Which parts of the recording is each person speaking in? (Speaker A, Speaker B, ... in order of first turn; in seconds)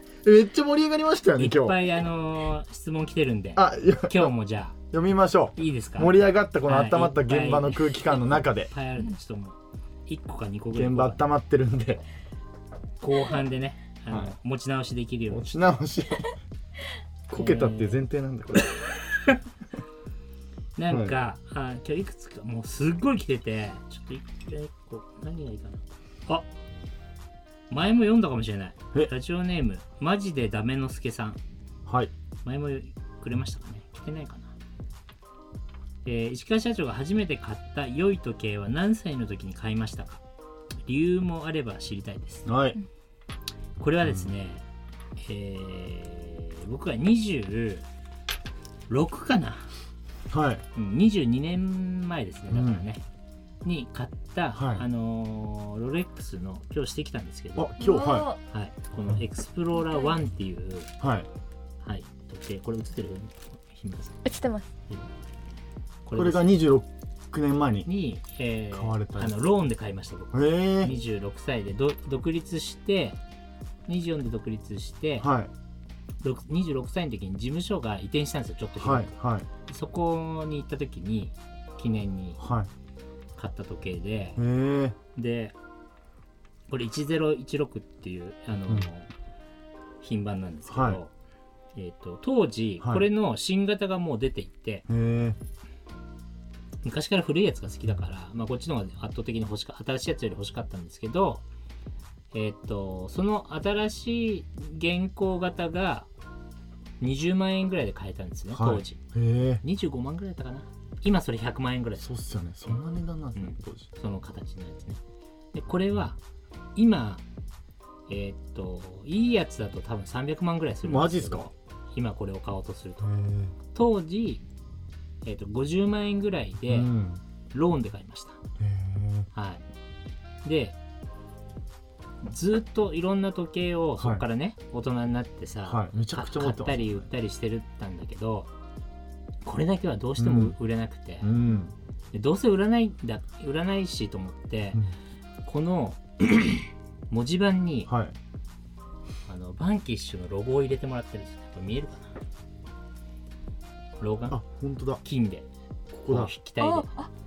Speaker A: 0.2-1.8, 3.5-4.3, 4.9-8.7, 10.7-12.0, 15.3-16.3, 17.3-18.8, 20.9-21.2, 31.9-32.1, 42.5-42.8, 44.0-44.3, 50.3-50.6, 52.5-52.8, 54.5-54.8, 57.5-58.3, 61.0-61.3, 66.1-67.9, 68.7-69.3, 70.3-71.0, 75.2-75.5, 78.8-79.5, 82.4-82.7, 84.4-85.0, 90.7-91.0, 92.8-93.0, 94.9-95.4, 108.5-109.6, 112.0-113.9, 120.8-121.5, 123.0-123.5, 126.6-127.2, 128.6-129.3, 134.0-134.2, 135.7-137.1, 140.2-140.6, 141.2-141.7, 147.9-148.2, 154.3-155.0, 155.9-156.3
Speaker B: 1.4-4.8, 5.5-11.2, 13.0-15.7, 17.3-18.0, 18.6-19.4, 20.8-26.5, 27.7-31.4, 32.4-34.5, 36.0-40.2, 40.8-42.5, 43.8-44.6, 45.2-47.9, 48.9-49.7, 50.8-53.0, 53.6-57.7, 58.5-60.9, 61.8-64.2, 66.0-66.5, 67.8-73.2, 73.9-75.3, 76.2-82.4, 83.4-84.4, 85.1-85.5, 86.7-89.1, 90.0-91.1, 91.7-94.8, 96.8-101.4, 102.3-106.1, 107.0-109.0, 109.6-112.1, 113.3-115.0, 115.5-116.2, 116.7-117.2, 118.1-123.1, 123.7-124.4, 125.2-126.9, 127.5-128.4, 129.3-129.6, 130.4-130.8, 132.2-138.5, 139.4-141.3, 142.1-144.8, 145.4-147.9, 149.2-152.1, 154.0-154.4, 155.0-155.5, 156.1-156.9
Speaker C: 57.8-58.4, 59.7-60.1, 64.2-64.7, 156.6-157.1